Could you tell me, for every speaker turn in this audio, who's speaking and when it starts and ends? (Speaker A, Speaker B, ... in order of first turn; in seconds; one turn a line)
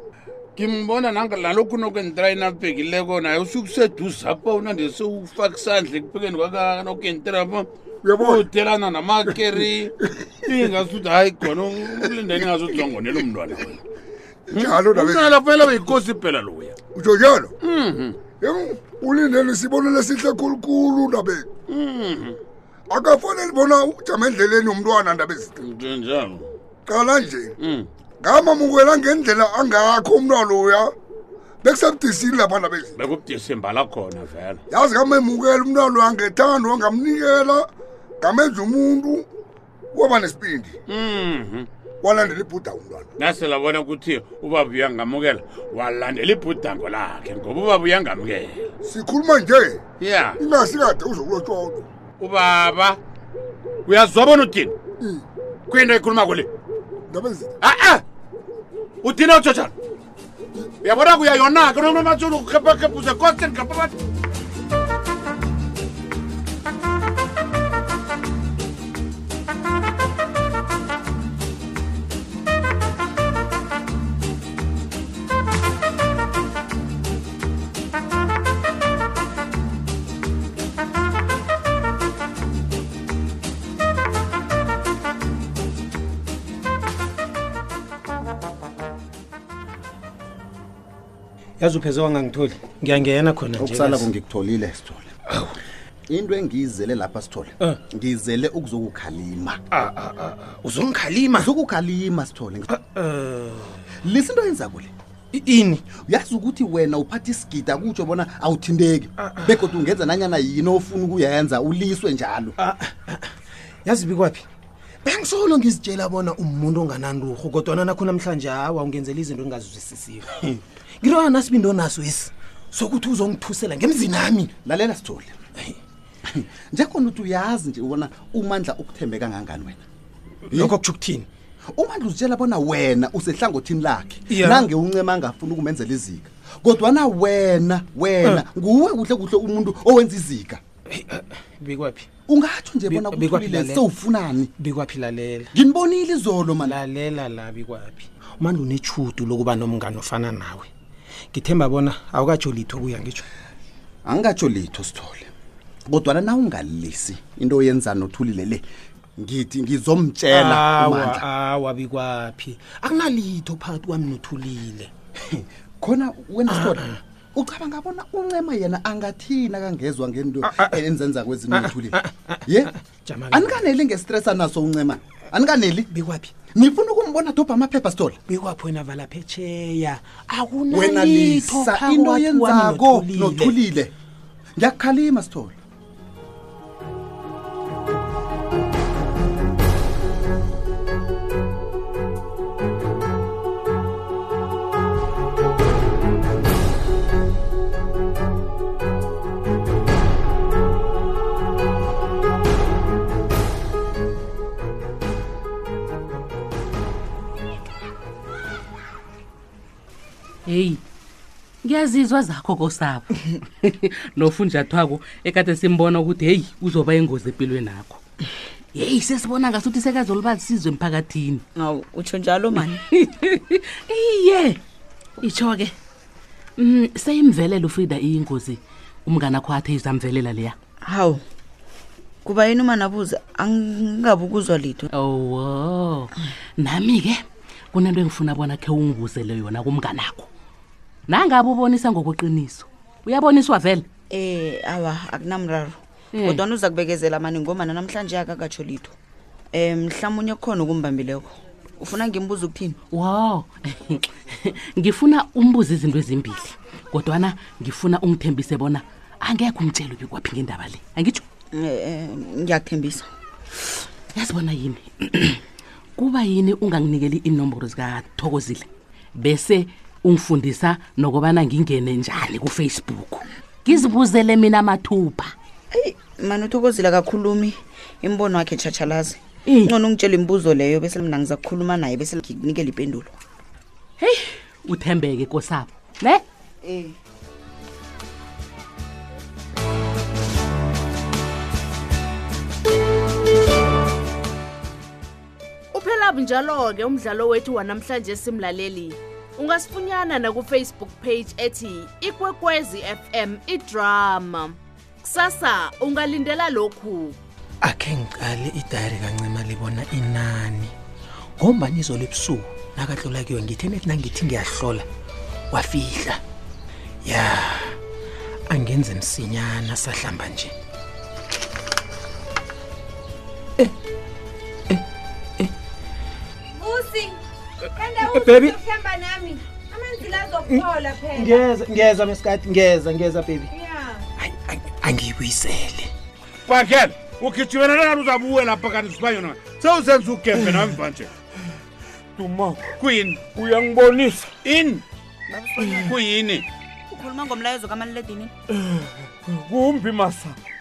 Speaker A: 0.6-13.8
Speaker B: 8.0-8.5
Speaker B: 14.5-15.3
Speaker A: 14.5-16.8
Speaker B: 16.9-17.5
Speaker A: 17.6-18.2
Speaker B: 18.4-21.5
Speaker A: 21.7-22.4
Speaker B: 22.9-25.5
Speaker A: 25.6-26.5
Speaker B: 26.9-27.5
Speaker A: 27.6-27.9
Speaker B: 28.2-30.9
Speaker B: 31.6-32.9
Speaker A: 33.0-34.6
Speaker B: 34.7-37.7
Speaker B: 38.2-39.2
Speaker B: 39.9-40.8
Speaker A: 40.9-41.7
Speaker B: 42.0-43.1
Speaker A: 43.2-48.7
Speaker B: 48.8-49.8
Speaker A: 50.0-50.4
Speaker B: 50.4-51.9
Speaker A: 52.2-53.0
Speaker A: 53.9-54.7
Speaker A: 55.7-56.5
Speaker B: 57.1-57.5
Speaker A: 57.6-58.0
Speaker A: 59.0-59.7
Speaker A: 60.8-63.9
Speaker C: 91.6-94.1
Speaker D: 93.6-95.1
Speaker D: 96.1-99.6
Speaker C: 99.7-101.5
Speaker D: 101.4-102.7
Speaker C: 102.7-103.8
Speaker D: 104.0-104.9
Speaker C: 105.3-105.8
Speaker D: 105.9-112.5
Speaker C: 109.2-109.5
Speaker C: 112.6-113.3
Speaker C: 113.8-114.5
Speaker C: 115.0-124.5
Speaker D: 124.6-125.4
Speaker D: 126.2-129.8
Speaker C: 130.5-131.3
Speaker D: 130.5-130.8
Speaker D: 131.7-140.6
Speaker C: 134.3-134.7
Speaker C: 140.9-142.1
Speaker D: 142.3-144.5
Speaker C: 142.9-143.8
Speaker C: 144.6-145.5
Speaker D: 145.5-146.8
Speaker C: 146.6-150.7
Speaker C: 151.3-153.2
Speaker D: 154.0-155.3
Speaker D: 155.9-158.6
Speaker D: 159.2-161.2
Speaker C: 160.3-164.9
Speaker D: 165.2-172.7
Speaker C: 166.5-166.9
Speaker C: 170.5-170.8
Speaker C: 171.5-173.7
Speaker D: 173.3-175.9
Speaker C: 175.9-176.3
Speaker D: 176.5-178.2
Speaker C: 178.3-183.6
Speaker D: 180.7-183.9
Speaker D: 184.6-185.5
Speaker E: 210.5-210.8
Speaker E: 211.6-218.0
Speaker E: 218.7-221.4
Speaker F: 221.6-222.8
Speaker E: 222.9-224.6
Speaker E: 225.2-225.7
Speaker E: 226.6-230.6
Speaker F: 230.8-231.2
Speaker F: 232.2-234.9
Speaker E: 234.9-240.3
Speaker E: 241.1-243.8
Speaker F: 244.1-248.9
Speaker E: 246.1-246.4
Speaker F: 249.5-252.8
Speaker E: 252.9-261.2
Speaker F: 261.5-263.1
Speaker E: 264.1-265.4
Speaker E: 266.0-275.3
Speaker F: 275.7-283.2
Speaker E: 279.5-279.7
Speaker E: 284.0-286.2
Speaker F: 286.6-287.0
Speaker G: 295.7-307.2
Speaker C: 307.6-310.7
Speaker C: 311.4-314.9
Speaker C: 315.5-316.2
Speaker C: 317.0-317.8
Speaker C: 318.5-320.5
Speaker H: 326.5-327.2
Speaker H: 327.7-331.5
Speaker C: 328.0-328.5
Speaker C: 330.5-333.5
Speaker H: 333.5-334.0
Speaker C: 334.2-335.9
Speaker A: 336.4-341.1
Speaker A: 342.2-343.4
Speaker A: 344.2-344.8
Speaker F: 345.3-346.0
Speaker A: 345.7-346.4
Speaker F: 346.9-348.3